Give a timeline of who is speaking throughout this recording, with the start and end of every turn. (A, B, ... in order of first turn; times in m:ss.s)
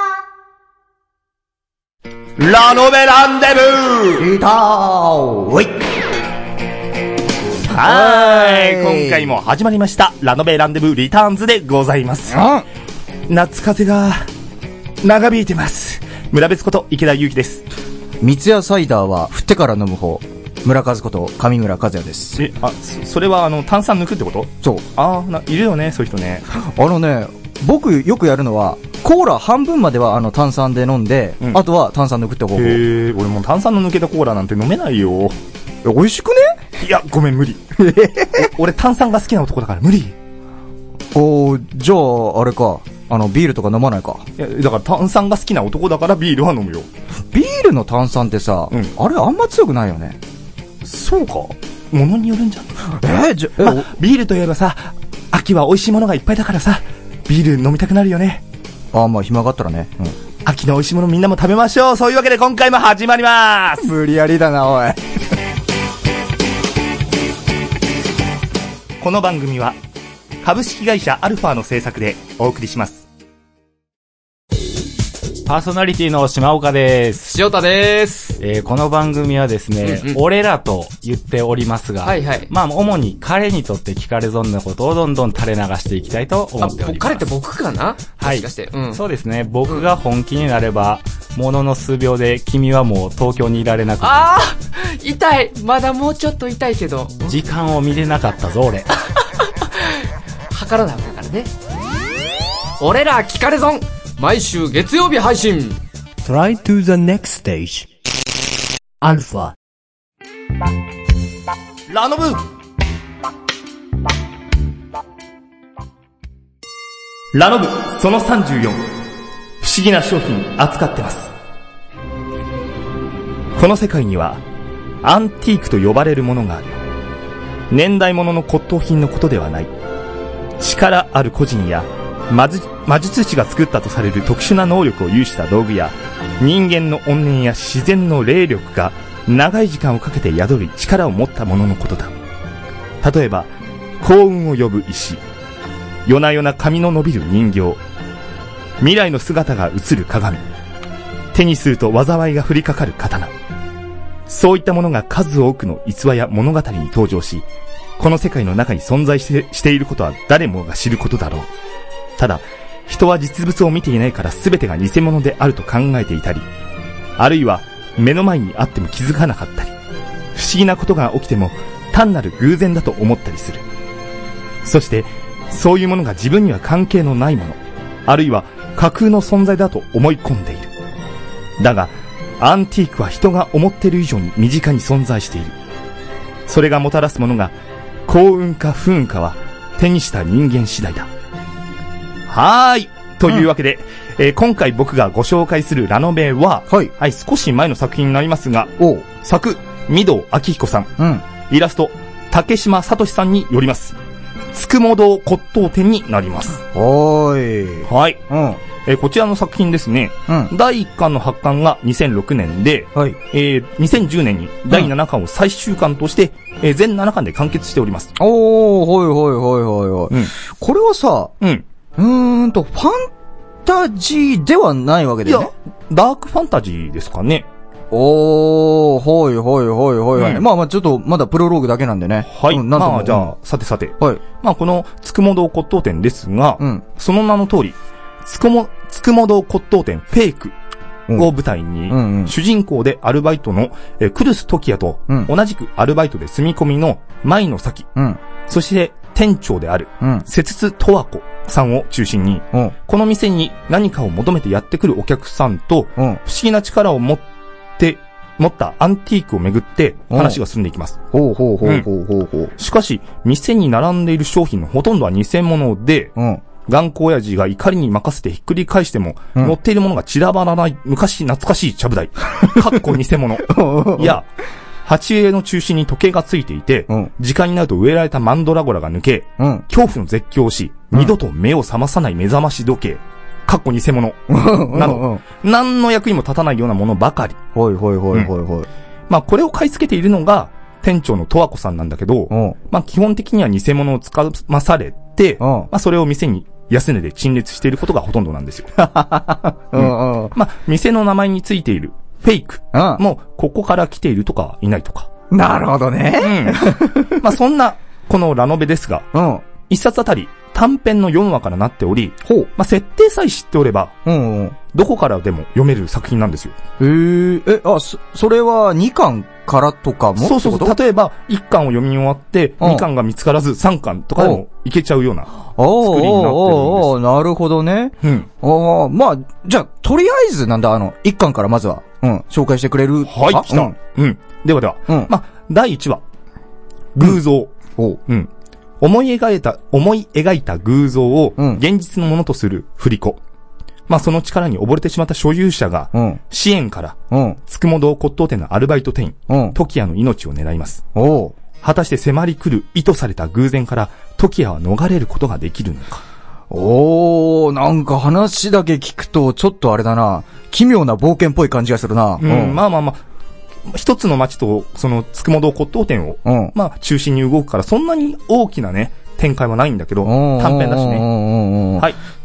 0:02.4-0:04.3 A
0:04.2-0:05.7 B
0:07.7-0:12.4 A
0:07.8-0:09.4 B
0:12.3-0:12.6 B
0:13.3-0:14.3 A
0:15.0-0:17.6 A
0:18.2-0:22.4 B
0:22.4-0:26.5 A
0:26.5-0:32.8 B
0:32.6-0:35.4 A
0:35.8-0:36.6 B
0:36.8-0:37.8 A
0:37.8-0:38.4 B
0:38.3-0:40.2 A
0:41.1-0:44.3 B
0:44.4-0:46.9 A
0:47.3-0:50.2 B
0:50.8-0:52.9 A
0:52.8-0:53.9 B
0:53.6-0:58.4 A
0:58.9-1:00.2 B
1:00.4-1:04.0 A
1:03.8-1:05.0 B
1:09.0-1:09.8 A
1:10.4-1:13.1 A
1:15.5-1:17.3 C
1:17.3-1:18.4 D
1:18.4-1:27.3 C
1:19.8-1:20.2 D
1:22.0-1:22.5 D
1:26.6-1:29.0 D
1:28.2-1:34.2 C
1:34.0-1:37.4 D
1:37.3-1:38.9 C
1:39.4-1:41.5 D
1:42.8-1:45.8 D
1:46.2-1:47.9 E
1:49.0-1:49.6 E
1:51.9-1:52.4 A
1:57.3-1:58.8 A
1:59.6-2:01.3 A
2:03.6-2:04.4 A
2:05.0-2:06.8 A
2:07.7-2:09.7 A
2:10.6-2:22.1 A
2:23.0-2:25.2 A
2:26.1-2:27.8 A
2:28.8-2:30.5 A
2:31.3-2:33.3 A
2:34.3-2:37.5 A
2:38.0-2:41.5 A
2:42.2-2:46.5 A
2:47.2-2:49.8 A
2:50.4-2:53.6 A
2:54.6-3:00.7 A
3:01.6-3:05.6 A
3:06.5-3:07.5 A
3:08.1-3:11.1 A
3:12.3-3:24.0 A
3:18.8-3:19.1 B
3:21.0-3:21.3 B
3:24.5-3:26.6 A
3:26.7-3:28.6 B
3:27.9-3:28.2 A
3:28.8-3:38.2 A
3:30.3-3:30.5 B
3:38.2-3:41.3 B
3:40.1-3:40.4 A
3:41.4-3:41.6 A
3:42.0-3:43.1 B
3:43.6-3:45.5 B
3:45.2-3:47.5 A
3:47.9-3:53.3 B
3:50.2-3:50.5 A
3:52.2-4:00.5 A
3:54.0-3:54.2 B
3:56.6-3:56.9 B
4:01.1-4:07.9 A
4:01.9-4:02.4 B
4:08.0-4:08.2 B
4:08.5-4:17.2 A
4:10.0-4:10.3 B
4:17.8-4:21.0 A
4:20.1-4:20.4 B
4:21.1-4:22.5 B
4:21.6-4:21.9 A
4:22.6-4:34.3 A
4:26.2-4:26.4 B
4:33.4-4:34.2 B
4:34.8-4:47.4 A
4:39.4-4:39.7 B
4:44.3-4:45.2 B
4:47.6-4:48.7 B
4:49.1-4:58.9 A
4:52.3-4:52.6 B
4:55.4-4:55.7 B
4:58.8-5:00.4 B
4:59.7-5:05.1 A
5:02.7-5:03.0 B
5:05.3-5:07.3 B
5:06.2-5:09.1 A
5:09.1-5:09.4 B
5:09.7-5:14.0 A
5:12.2-5:12.5 B
5:14.1-5:14.6 B
5:14.7-5:16.6 A
5:16.8-5:20.8 B
5:20.2-5:27.0 A
5:22.6-5:22.9 B
5:24.2-5:24.4 B
5:25.6-5:33.8 B
5:28.0-5:28.3 A
5:33.0-5:36.0 A
5:37.0-5:37.6 A
5:38.8-5:43.2 A
5:43.9-5:50.8 A
5:45.9-5:46.2 B
5:47.1-5:47.4 B
5:49.3-5:49.6 B
5:51.0-5:51.4 B
5:51.6-5:56.0 A
5:56.5-6:02.6 B
6:02.2-6:03.0 A
6:03.7-6:11.1 A
6:06.2-6:06.5 B
6:10.0-6:11.9 B